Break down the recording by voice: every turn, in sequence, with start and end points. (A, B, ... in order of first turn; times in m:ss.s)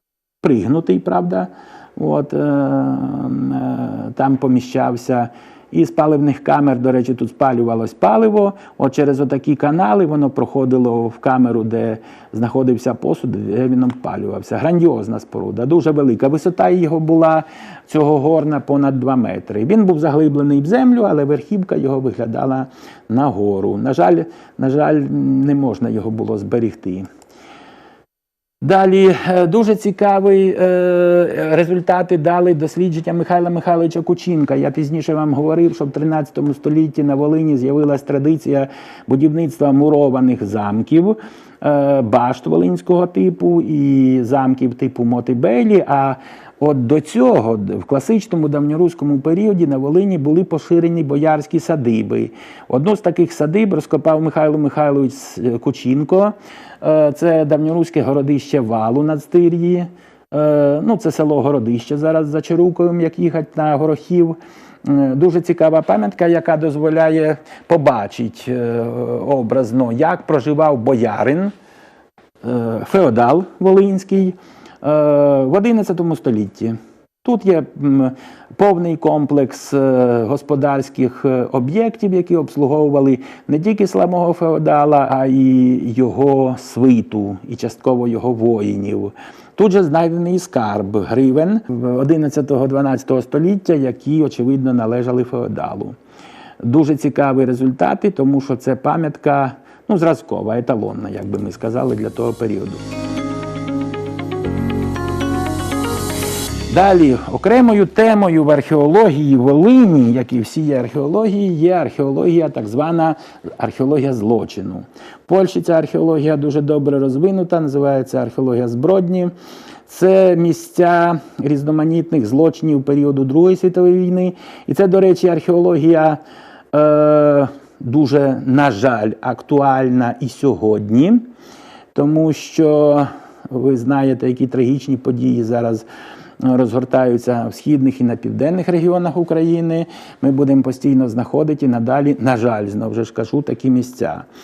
0:00.4-0:27.1 A
0:28.6-1:11.5 A
1:12.4-1:36.0 A
1:36.6-1:42.8 A
1:46.7-1:59.3 A
1:59.9-2:06.2 A
2:06.7-2:11.3 A
2:11.9-2:15.8 A
2:16.4-2:24.3 A